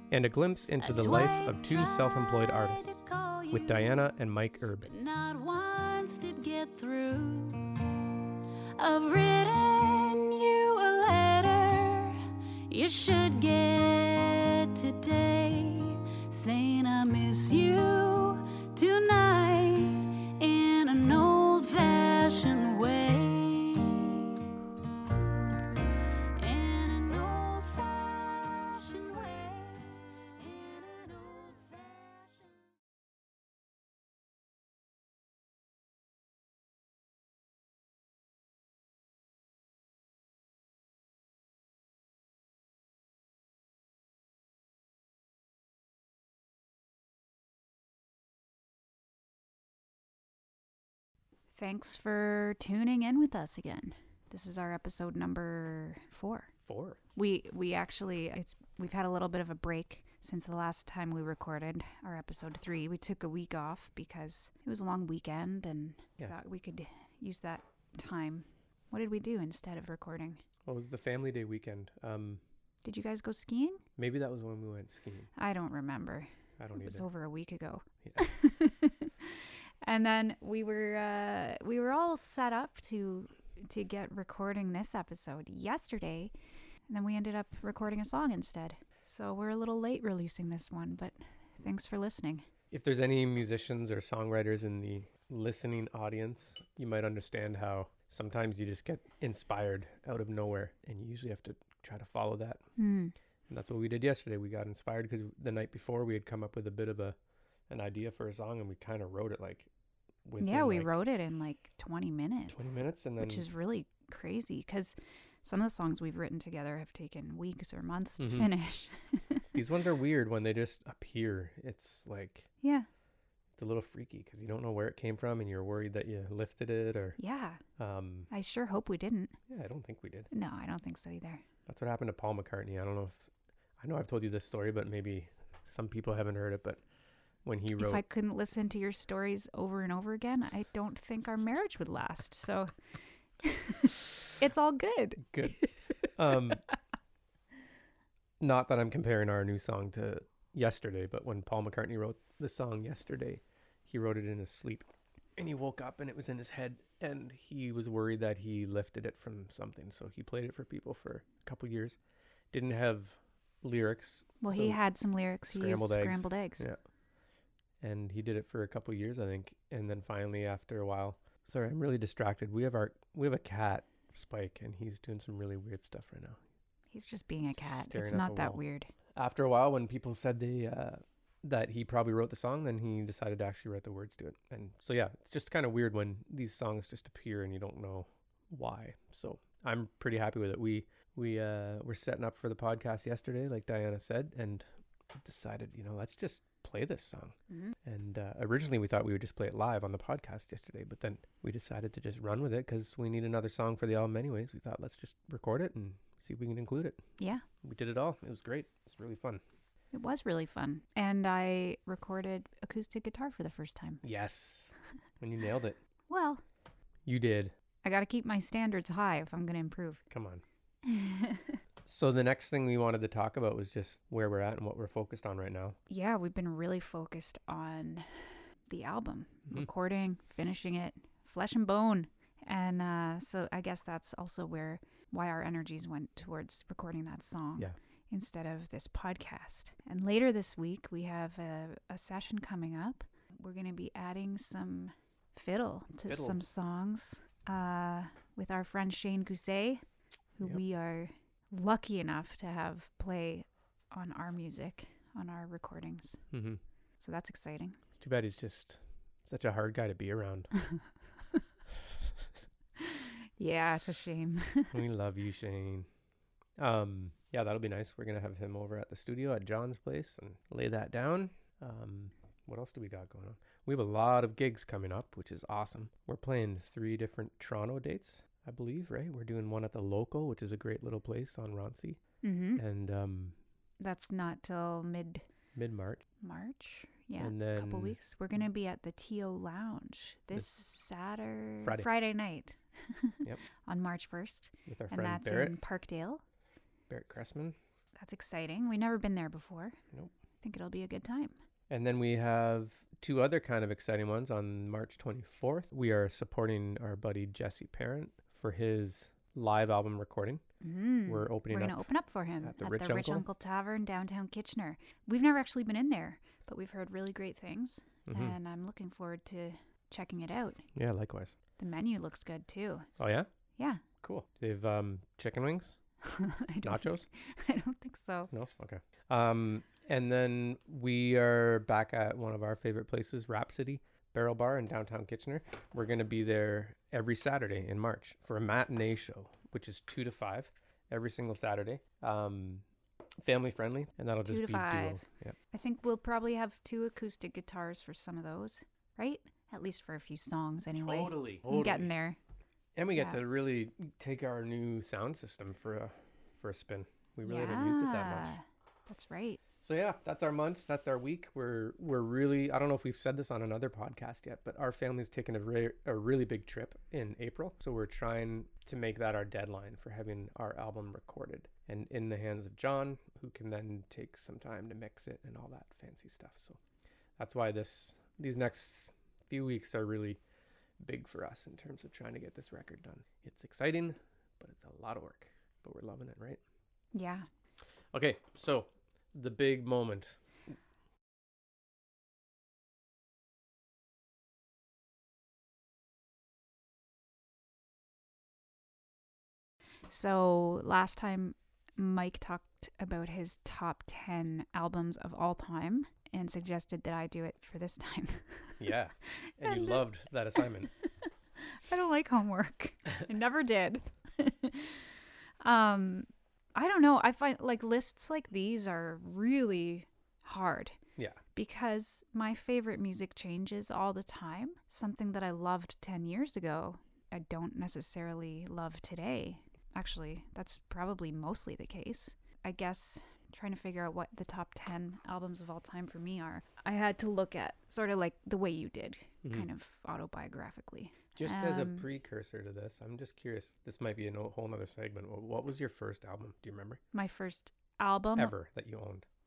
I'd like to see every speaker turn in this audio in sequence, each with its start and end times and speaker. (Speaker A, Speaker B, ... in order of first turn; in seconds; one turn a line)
Speaker A: 0.1-4.9
Speaker B: 0.8-4.1
Speaker B: 4.8-7.7
Speaker B: 8.8-24.4
Speaker B: 26.4-32.6
Speaker C: 51.5-56.5
Speaker A: 56.7-57.0
Speaker C: 57.1-70.4
Speaker A: 70.7-72.4
Speaker C: 72.8-73.8
Speaker A: 74.0-75.3
Speaker C: 75.4-86.3
Speaker A: 76.6-77.1
Speaker C: 86.9-92.5
Speaker A: 92.7-102.6
Speaker C: 102.8-103.1
Speaker A: 103.5-107.2
Speaker A: 107.7-109.7
Speaker A: 110.2-111.0
Speaker C: 110.4-119.5
Speaker A: 112.5-113.5
Speaker A: 118.2-118.5
Speaker A: 119.5-122.5
Speaker C: 122.6-122.9
Speaker A: 123.6-127.2
Speaker C: 127.2-127.6
Speaker A: 127.8-128.3
Speaker C: 128.3-129.3
Speaker A: 129.5-130.3
Speaker C: 130.3-131.4
Speaker A: 131.7-136.8
Speaker A: 137.4-138.0
Speaker C: 137.8-142.7
Speaker C: 143.4-146.5
Speaker A: 145.3-145.6
Speaker A: 146.2-146.6
Speaker A: 148.4-162.0
Speaker A: 162.5-164.8
Speaker C: 164.4-166.7
Speaker A: 165.5-166.8
Speaker A: 167.8-176.4
Speaker C: 176.9-178.9
Speaker A: 177.6-178.6
Speaker A: 179.1-194.7
Speaker A: 195.2-207.0
Speaker C: 197.5-197.8
Speaker C: 207.2-207.4
Speaker A: 207.6-209.4
Speaker C: 209.9-214.0
Speaker A: 214.0-215.8
Speaker C: 216.1-216.4
Speaker A: 217.1-217.5
Speaker C: 217.8-220.0
Speaker A: 220.1-220.4
Speaker C: 220.8-221.6
Speaker A: 221.8-225.8
Speaker C: 225.9-249.8
Speaker A: 246.1-246.4
Speaker C: 250.4-256.2
Speaker A: 256.3-256.6
Speaker C: 257.0-257.8
Speaker A: 257.9-260.5
Speaker C: 262.8-264.8
Speaker A: 264.7-265.9
Speaker A: 266.6-282.0
Speaker C: 282.2-282.6
Speaker A: 282.6-283.4
Speaker C: 283.8-285.2
Speaker A: 285.6-286.1
Speaker C: 286.2-296.2
Speaker A: 287.2-288.0
Speaker A: 291.6-291.9
Speaker A: 294.7-295.6
Speaker A: 296.9-297.6
Speaker C: 298.0-299.8
Speaker C: 300.4-301.4
Speaker A: 301.7-310.4
Speaker C: 310.6-320.7
Speaker A: 311.1-311.9
Speaker A: 312.4-313.3
Speaker A: 318.1-318.4
Speaker A: 320.8-321.4
Speaker C: 321.6-322.9
Speaker A: 323.0-323.3
Speaker C: 323.6-323.8
Speaker A: 324.0-325.8
Speaker C: 326.0-328.3
Speaker A: 326.6-327.1
Speaker A: 328.3-342.6
Speaker A: 343.2-345.4
Speaker C: 344.3-352.2
Speaker A: 350.8-351.9
Speaker A: 352.8-358.4
Speaker C: 357.2-359.4
Speaker A: 359.6-376.6
Speaker A: 377.2-380.2
Speaker A: 380.8-386.4
Speaker C: 386.9-387.3
Speaker A: 387.9-390.2
Speaker C: 399.9-408.6
Speaker A: 408.6-410.7
Speaker C: 409.1-409.9
Speaker C: 410.4-414.9
Speaker C: 415.4-420.8
Speaker C: 421.4-441.9
Speaker A: 441.2-446.8
Speaker C: 446.9-448.3
Speaker A: 448.2-449.1